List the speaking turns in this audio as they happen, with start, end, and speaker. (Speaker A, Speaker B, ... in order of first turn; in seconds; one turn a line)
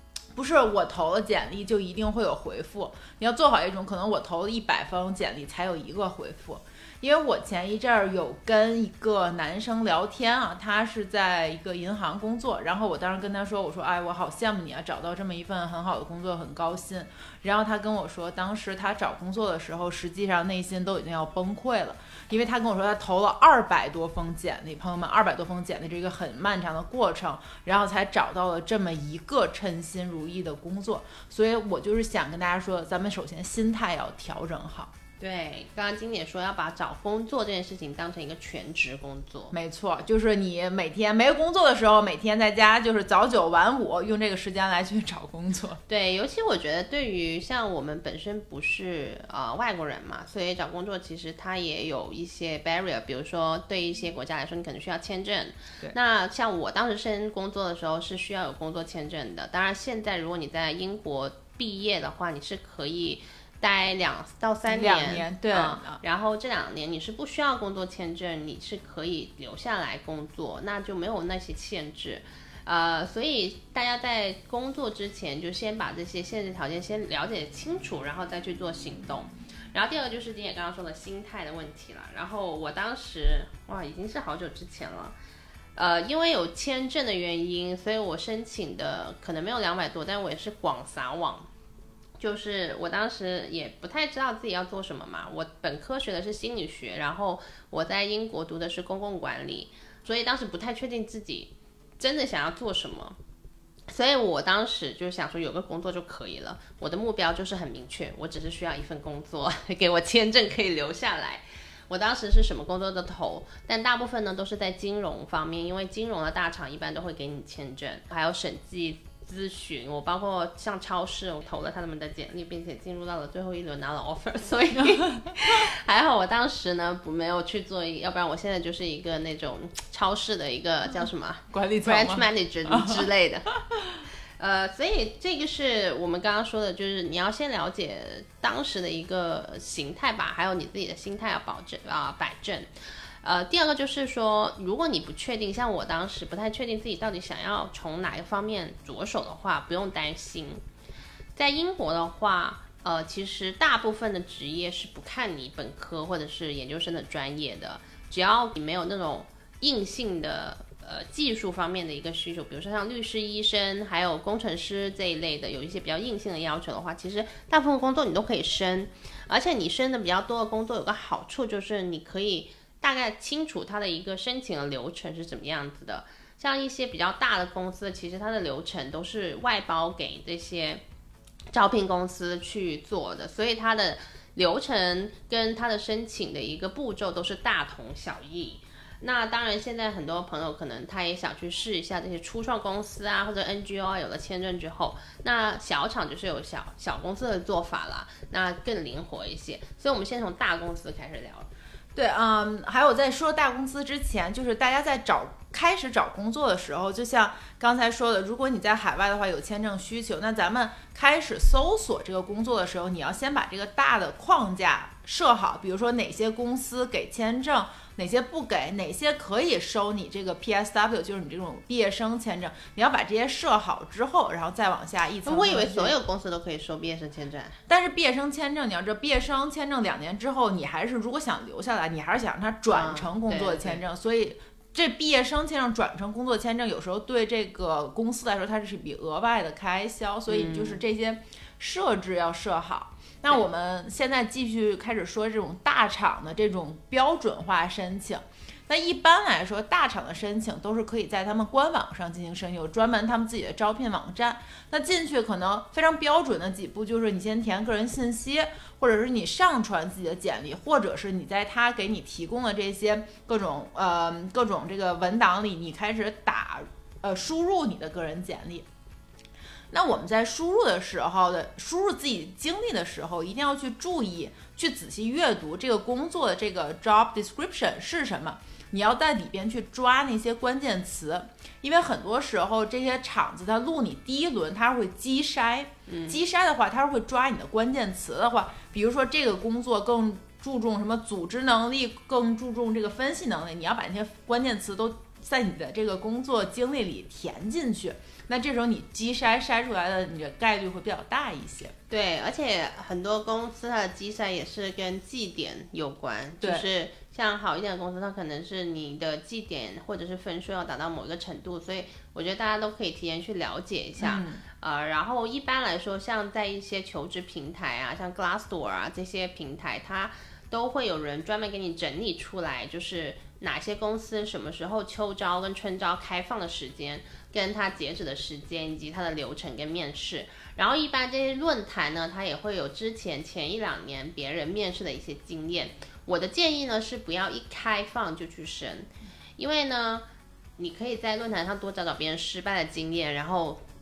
Speaker A: 0.3-34.9
Speaker B: 35.2-39.5
Speaker A: 39.5-45.8
Speaker B: 45.9-85.1
Speaker A: 64.7-66.0
Speaker B: 85.8-91.5
Speaker B: 92.2-103.2
Speaker B: 103.9-133.5
Speaker A: 131.5-133.1
Speaker A: 133.6-134.0
Speaker B: 134.4-142.7
Speaker B: 143.2-150.6
Speaker B: 151.3-180.8
Speaker B: 181.5-201.5
Speaker A: 201.9-225.9
Speaker B: 225.2-227.6
Speaker A: 227.7-268.7
Speaker B: 232.7-233.8
Speaker B: 240.3-240.8
Speaker A: 269.7-301.7
Speaker B: 285.9-286.2
Speaker B: 301.9-340.1
Speaker A: 306.4-306.6
Speaker A: 314.0-314.4
Speaker B: 340.6-343.6